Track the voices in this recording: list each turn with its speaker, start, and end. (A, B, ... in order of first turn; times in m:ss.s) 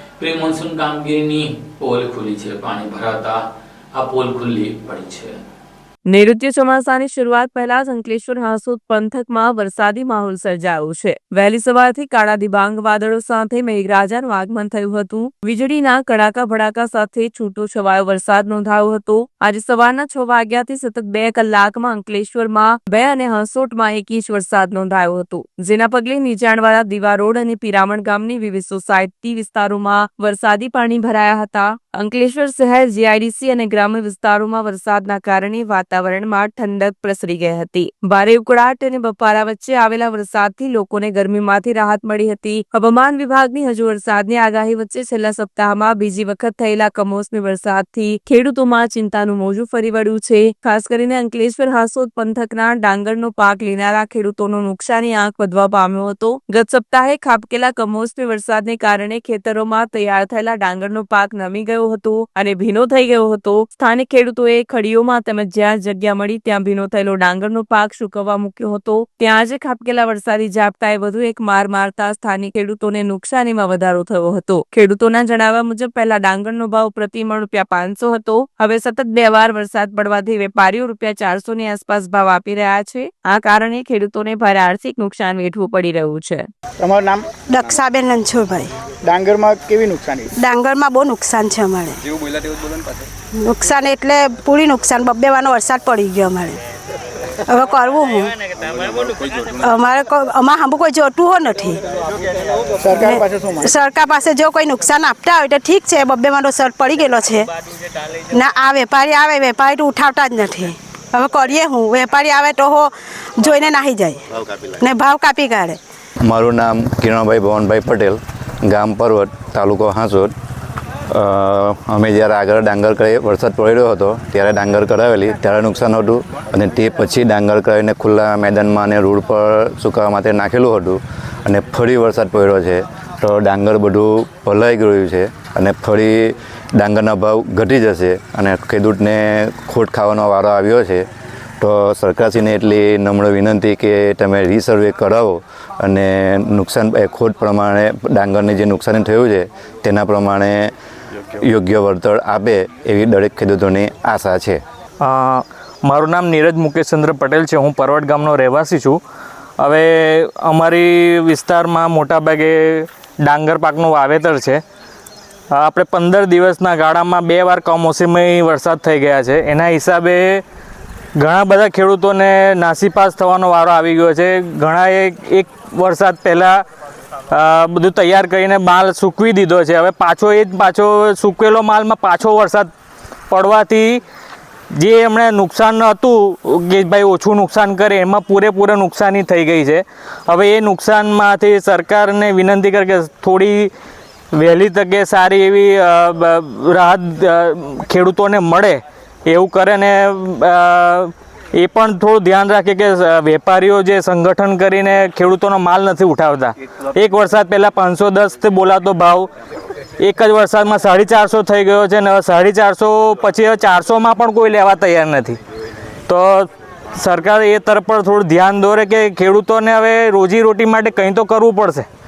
0:00.2-0:03.4 A
0:03.9-0:05.4 A
0:06.0-1:26.5 B
1:26.8-1:27.3 C
1:27.5-1:28.7 D
1:29.0-1:30.3 C
1:30.4-1:32.0 D
1:33.4-1:36.6 D
1:37.5-1:38.4 D
1:39.5-1:41.8 D
1:42.8-1:43.7 C
1:43.0-1:47.5 D
1:48.3-1:54.2 D
1:54.8-1:55.8 D
1:56.3-2:00.3 E
2:01.1-2:21.0 E
2:21.6-2:30.7 E
2:31.4-2:34.6 E
2:35.0-2:39.0 F
2:39.6-2:44.6 F
2:45.5-2:50.4 F
2:51.2-2:56.6 F
2:57.3-3:02.7 F
3:03.3-3:04.0 F
3:04.7-3:13.7 F
3:14.3-3:29.3 F
3:30.0-3:35.4 F
3:36.1-3:41.8 F